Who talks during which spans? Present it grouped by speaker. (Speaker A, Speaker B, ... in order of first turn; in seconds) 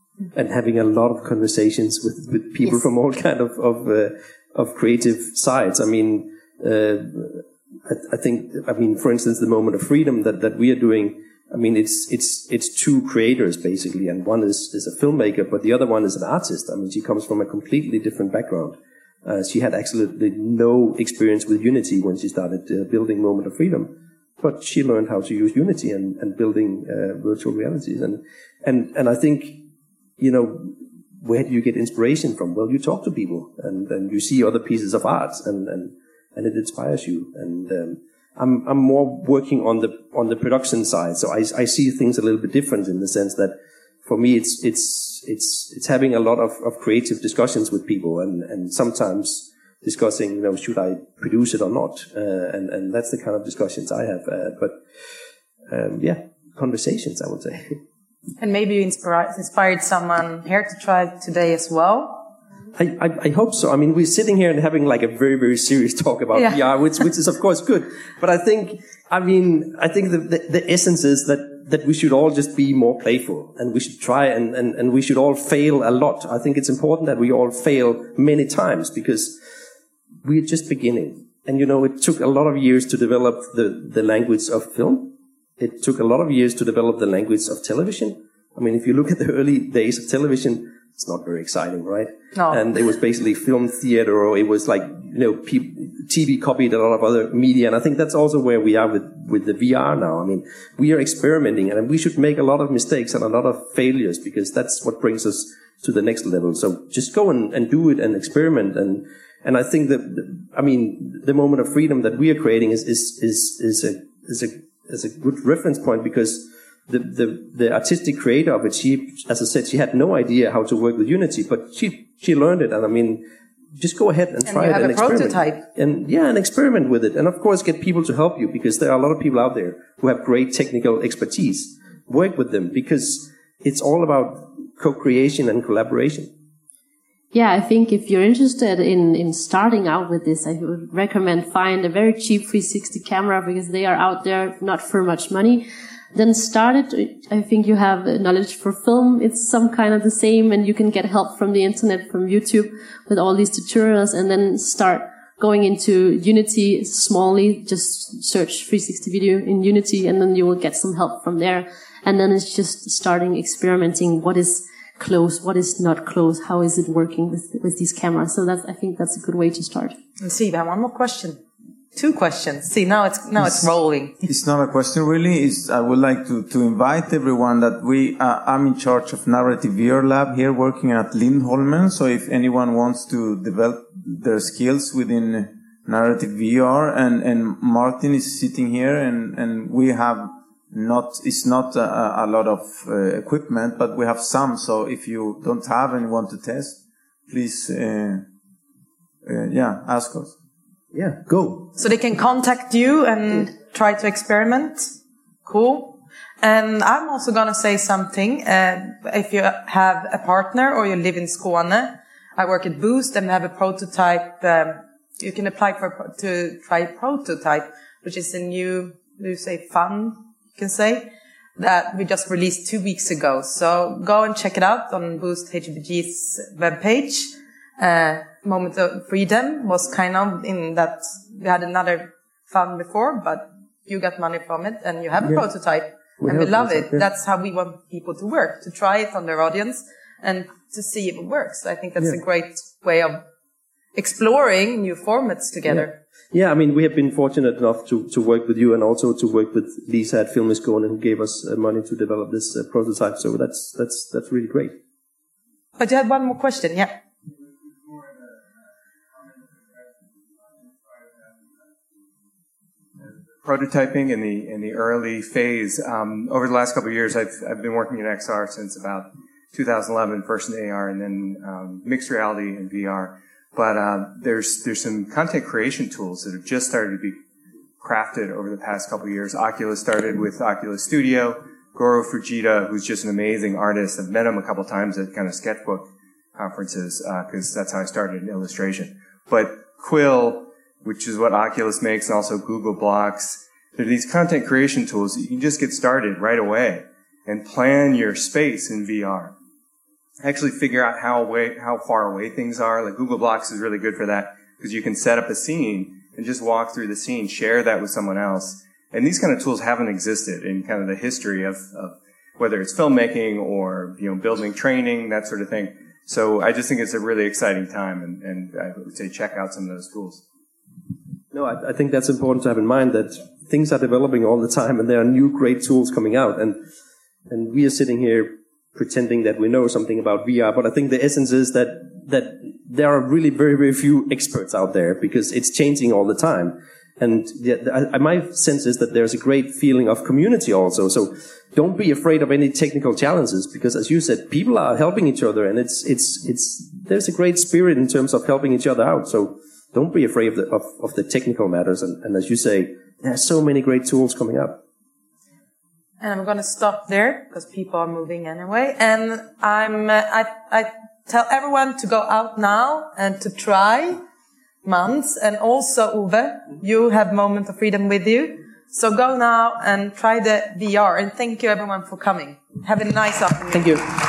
Speaker A: 0.3-29.6, 30.2-43.5, 44.0-54.8, 55.7-57.8, 62.8-79.4, 80.2-123.2, 123.8-136.3, 200.9-201.7, 236.2-237.1, 245.7-254.7, 321.3-326.6, 327.3-354.6
Speaker B: 58.4-62.3, 66.3-66.6, 92.3-92.6, 124.5-125.6, 170.2-171.4, 171.9-174.2, 201.8-204.9, 205.4-243.2, 243.9-245.9, 255.8-256.9, 356.0-364.0, 364.6-373.8
Speaker C: 137.3-169.9
Speaker D: 174.2-196.8, 197.3-198.2, 199.2-200.3
Speaker E: 263.4-277.2, 277.8-299.3, 300.2-320.2